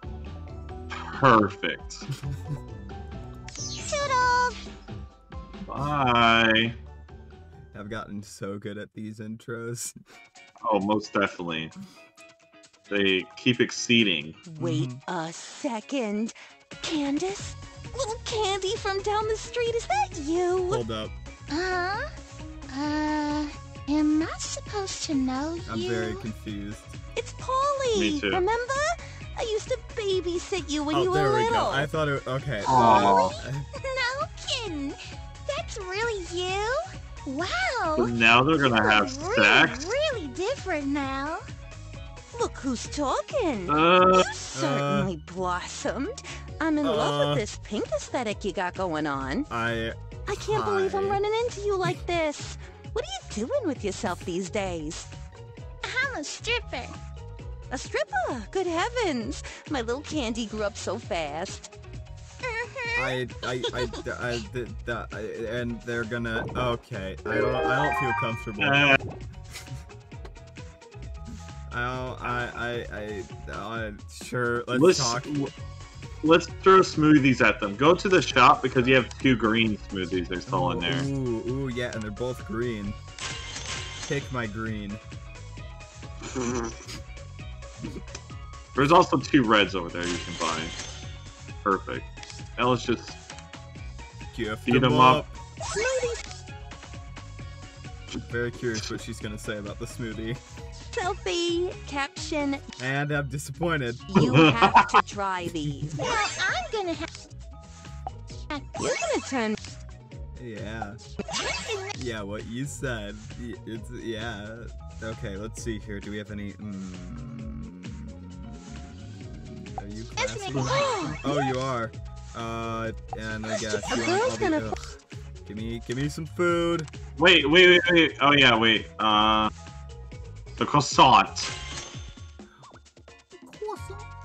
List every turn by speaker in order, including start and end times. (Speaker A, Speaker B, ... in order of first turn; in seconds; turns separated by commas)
Speaker A: 0.9-2.0, Speaker B: 3.8-4.5, Speaker A: 5.7-6.7, Speaker C: 7.7-10.0, Speaker A: 10.6-11.7, Speaker A: 12.9-14.4, Speaker D: 14.4-20.8, Speaker C: 14.6-15.0, Speaker C: 20.7-21.1, Speaker B: 21.5-22.1, Speaker B: 22.7-26.3, Speaker C: 25.7-27.0, Speaker D: 27.2-31.9, Speaker A: 27.9-28.4, Speaker C: 30.9-33.7, Speaker A: 32.7-33.4, Speaker B: 32.7-38.2, Speaker A: 38.0-39.9, Speaker B: 38.8-41.4, Speaker D: 42.3-49.5, Speaker A: 43.7-44.3, Speaker C: 44.5-45.1, Speaker C: 46.8-47.4, Speaker C: 49.5-51.2, Speaker D: 50.3-55.1, Speaker B: 55.8-57.0, Speaker D: 57.7-61.7, Speaker D: 62.5-62.9, Speaker C: 63.0-69.0, Speaker A: 68.6-69.0, Speaker C: 71.7-75.3, Speaker A: 72.2-72.5, Speaker A: 74.7-75.5, Speaker A: 76.2-81.1, Speaker C: 80.5-83.0, Speaker C: 84.0-85.0, Speaker A: 86.2-86.8, Speaker A: 88.8-90.8, Speaker A: 91.6-93.2, Speaker C: 94.3-95.4, Speaker A: 94.7-95.2, Speaker D: 95.6-96.2, Speaker C: 98.2-100.4, Speaker D: 100.9-102.6, Speaker C: 102.8-104.3, Speaker D: 104.1-106.0, Speaker A: 104.2-105.0, Speaker B: 106.0-107.1, Speaker D: 108.8-109.6, Speaker C: 110.4-111.0, Speaker B: 111.3-111.9, Speaker C: 112.0-124.8, Speaker B: 120.2-121.1, Speaker D: 120.7-121.2, Speaker D: 123.6-124.8, Speaker C: 125.5-126.9, Speaker A: 127.2-129.5, Speaker A: 130.6-131.5, Speaker C: 133.4-134.1